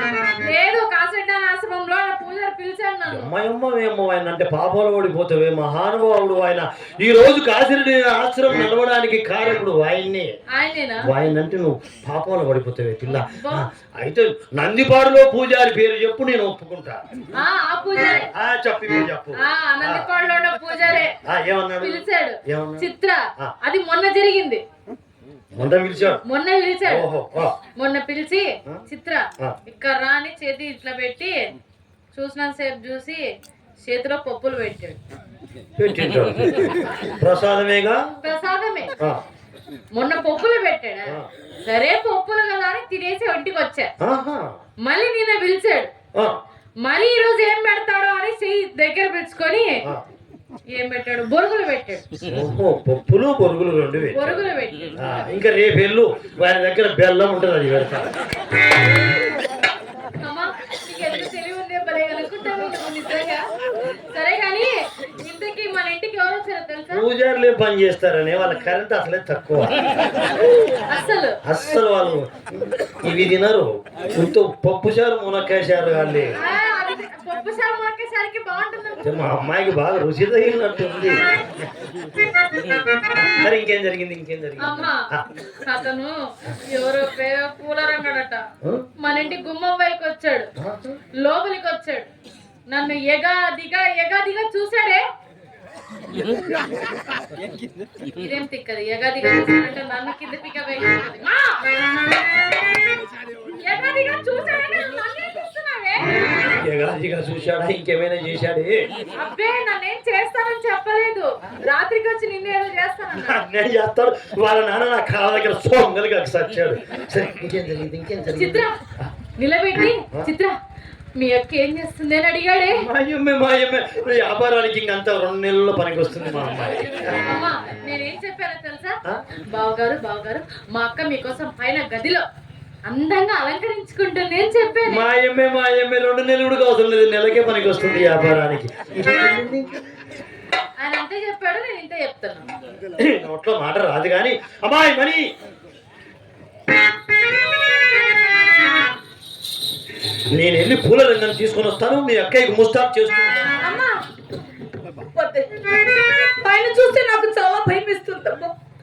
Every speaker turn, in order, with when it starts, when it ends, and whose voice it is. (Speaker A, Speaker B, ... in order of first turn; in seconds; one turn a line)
Speaker A: 0.4-3.3
Speaker B: 3.1-10.3
Speaker A: 10.5-11.1
Speaker B: 11.1-17.0
Speaker A: 13.2-13.7
Speaker A: 17.4-18.3
Speaker B: 18.3-20.1
Speaker A: 19.4-21.1
Speaker B: 21.2-22.9
Speaker A: 21.8-24.6
Speaker B: 25.6-26.2
Speaker A: 26.3-27.1
Speaker B: 26.9-27.5
Speaker A: 27.8-31.5
Speaker A: 32.1-33.2
Speaker A: 33.8-35.0
Speaker B: 35.8-38.1
Speaker A: 38.2-38.9
Speaker A: 40.0-43.9
Speaker B: 44.0-44.6
Speaker A: 44.9-45.9
Speaker A: 46.8-49.8
Speaker A: 50.7-52.0
Speaker B: 52.2-54.4
Speaker A: 54.1-54.9
Speaker B: 55.0-58.1
Speaker A: 60.2-63.5
Speaker A: 64.1-67.0
Speaker B: 66.9-69.9
Speaker A: 70.9-71.4
Speaker B: 71.4-76.4
Speaker A: 76.4-79.2
Speaker B: 79.0-81.7
Speaker B: 83.0-85.3
Speaker A: 84.6-85.0
Speaker A: 85.6-88.4
Speaker A: 89.0-90.5
Speaker B: 90.6-90.9
Speaker A: 91.2-92.1
Speaker A: 92.7-95.0
Speaker A: 98.2-101.6
Speaker A: 103.6-106.2
Speaker B: 106.3-108.9
Speaker A: 109.2-113.4
Speaker B: 113.2-119.1
Speaker A: 118.3-118.8
Speaker A: 119.3-120.5
Speaker A: 121.2-122.8
Speaker B: 122.7-127.2
Speaker A: 127.2-129.0
Speaker A: 129.5-132.2
Speaker A: 132.9-135.0
Speaker B: 134.9-139.7
Speaker A: 140.8-142.5
Speaker B: 143.0-145.3
Speaker B: 150.3-153.5
Speaker C: 153.6-153.9
Speaker C: 155.1-155.5
Speaker C: 156.2-158.5